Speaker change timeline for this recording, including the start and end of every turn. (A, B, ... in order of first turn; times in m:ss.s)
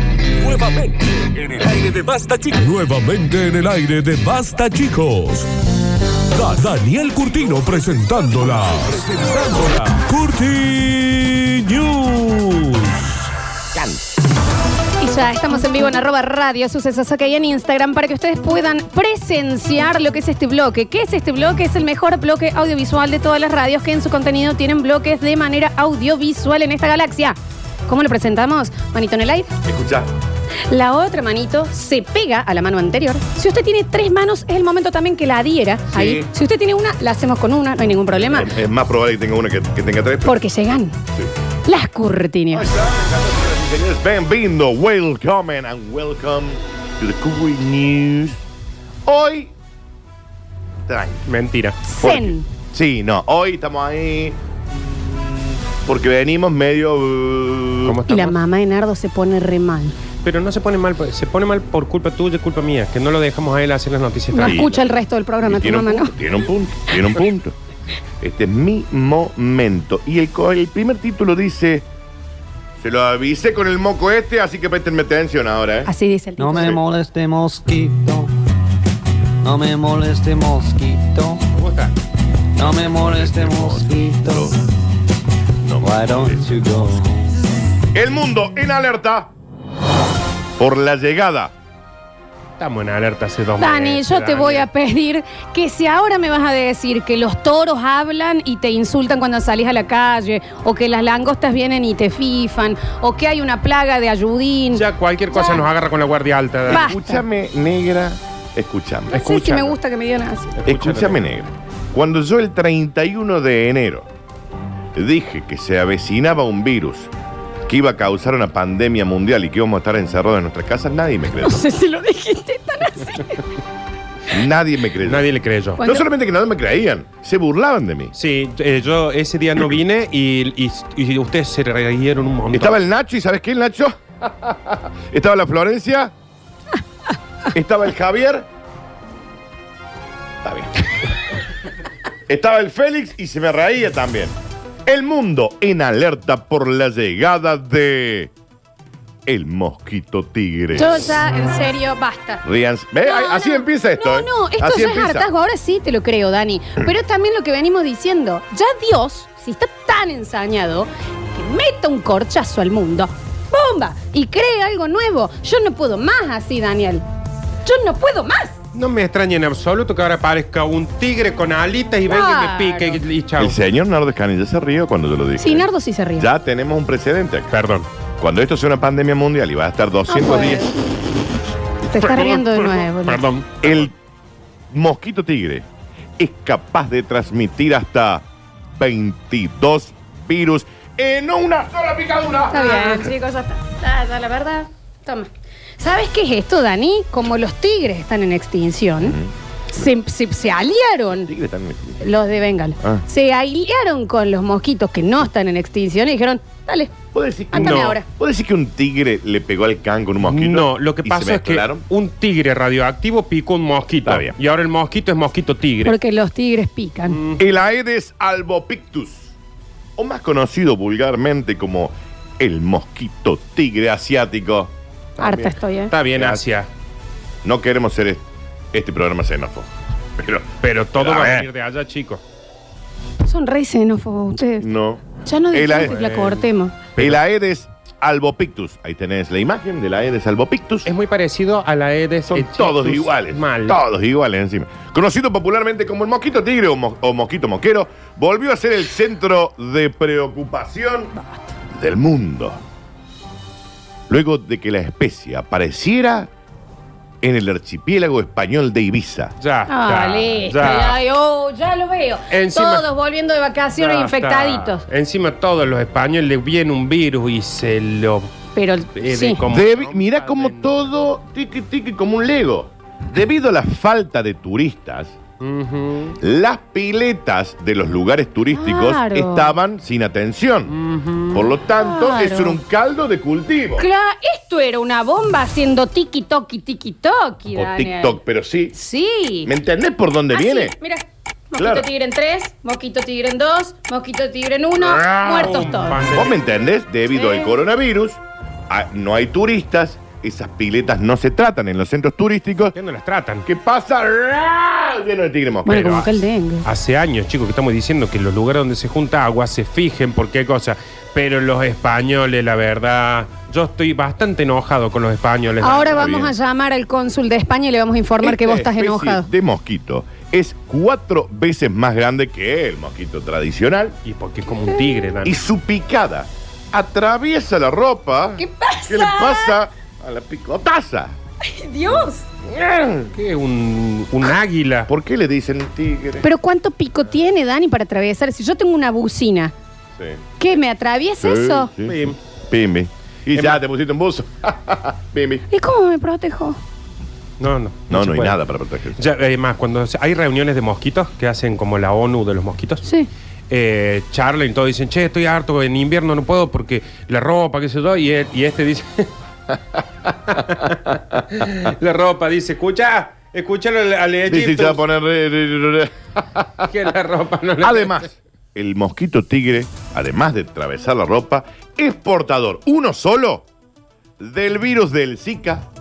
0:00.4-0:05.5 A
0:06.3-0:13.2 A
0:13.7-0:14.0 B
0:15.0-0:29.5 C
0:29.6-0:30.1 B
0:30.7-0:38.5 C
0:35.9-0:36.3 B
0:38.1-0:40.4 B
0:40.2-0:41.0 C
0:41.7-0:42.7 C
0:42.5-0:48.4 B
0:49.0-0:49.5 B
0:50.9-0:51.3 B
0:51.3-0:51.8 D
0:51.9-0:52.5 C
0:52.0-0:58.0 B
0:57.8-0:58.4 D
0:58.1-1:00.0 C
1:00.2-1:04.8 D
1:04.3-1:06.2 C
1:04.4-1:04.8 B
1:05.4-1:07.6 B
1:08.2-1:11.9 B
1:12.8-1:15.9 B
1:15.9-1:16.8 C
1:16.4-1:18.3 E
1:19.4-1:21.4 E
1:21.6-1:22.0 D
1:22.6-1:24.5 E
1:22.6-1:24.6 B
1:25.6-1:26.6 B
1:25.8-1:27.3 E
1:27.9-1:29.3 B
1:30.6-1:31.5 B
1:32.6-1:34.7 D
1:33.6-1:45.6 C
1:44.7-1:46.9 D
1:46.7-1:49.3 B
1:46.7-1:47.2 C
1:49.1-1:50.6 C
1:49.1-1:49.8 D
1:50.6-1:51.2 D
1:50.6-1:54.1 B
1:55.0-1:57.1 B
1:57.7-2:01.6 B
2:01.4-2:03.4 C
2:04.3-2:05.3 B
2:05.0-2:05.8 D
2:05.8-2:06.1 C
2:05.8-2:08.1 B
2:08.2-2:12.8 D
2:12.5-2:16.1 B
2:17.5-2:18.5 B
2:20.4-2:20.8 B
2:22.3-2:24.4 B
2:24.9-2:28.3 B
2:29.3-2:31.2 B
2:30.7-2:32.4 C
2:32.4-2:35.3 B
2:33.0-2:47.0 C
2:47.6-2:48.6 C
2:48.7-2:53.6 D
2:52.1-2:53.0 C
2:53.4-2:57.5 B
2:55.4-2:56.3 C
2:57.5-2:57.9 D
2:58.2-3:00.8 B
3:00.1-3:00.8 C
3:01.9-3:03.2 C
3:02.0-3:03.9 D
3:03.6-3:03.9 B
3:04.7-3:05.7 B
3:06.2-3:12.9 B
3:12.5-3:19.2 C
3:12.7-3:13.0 D
3:19.0-3:19.3 B
3:19.7-3:21.3 C
3:21.2-3:22.1 B
3:22.0-3:26.9 C
3:27.1-3:31.8 B
3:27.5-3:28.1 C
3:27.6-3:28.0 D
3:30.2-3:36.0 D
3:34.0-3:34.4 B
3:35.8-3:37.2 C
3:37.1-3:37.4 D
3:37.4-3:39.3 B
3:40.0-3:45.5 B
3:45.2-3:45.9 C
3:45.9-3:46.7 D
3:46.2-3:46.4 B
3:47.4-3:51.5 B
3:50.6-3:52.2 D
3:53.2-3:56.8 C
3:54.6-3:56.0 B
3:55.8-3:57.2 D
3:57.0-4:00.9 B
4:00.9-4:03.8 D
4:02.3-4:11.1 B
4:11.7-4:12.6 B
4:14.1-4:16.3 B
4:17.2-4:19.3 B
4:19.4-4:21.0 D
4:19.7-4:24.8 C
4:22.3-4:22.9 D
4:23.8-4:28.3 D
4:28.6-4:29.4 C
4:29.0-4:30.8 D
4:29.5-4:35.2 B
4:35.4-4:36.2 D
4:36.2-4:40.8 B
4:38.5-4:39.6 C
4:40.7-4:41.5 D
4:41.3-4:43.9 B
4:41.7-4:42.6 C
4:43.8-4:48.2 C
4:47.6-4:48.7 B
4:48.7-4:49.5 C
4:49.4-4:50.8 B
4:50.3-4:56.1 C
4:51.6-4:51.9 B
4:55.0-4:56.6 D
4:55.2-4:55.5 B
4:56.1-5:02.8 B
4:57.2-4:57.5 C
5:02.7-5:03.5 D
5:03.4-5:06.0 B
5:05.7-5:06.6 C
5:05.7-5:06.1 D
5:06.6-5:16.2 D
5:15.6-5:19.3 C
5:15.9-5:16.3 B
5:18.2-5:24.0 B
5:24.0-5:25.4 D
5:25.2-5:31.1 B
5:28.4-5:29.6 C
5:31.4-5:32.3 C
5:32.4-5:33.1 B
5:33.1-5:34.9 D
5:34.9-5:36.3 B
5:36.2-5:39.5 C
5:40.0-5:40.2 B
5:40.4-5:41.7 C
5:41.2-5:45.4 B
5:41.8-5:42.2 D
5:43.3-5:43.6 D
5:45.5-5:46.6 C
5:47.4-5:48.4 D
5:47.9-5:49.0 B
5:49.0-5:52.8 D
5:52.8-5:53.1 C
5:53.5-5:59.1 D
6:00.3-6:04.8 D
6:04.3-6:06.6 B
6:06.6-6:08.1 D
6:07.6-6:13.5 B
6:14.2-6:15.7 B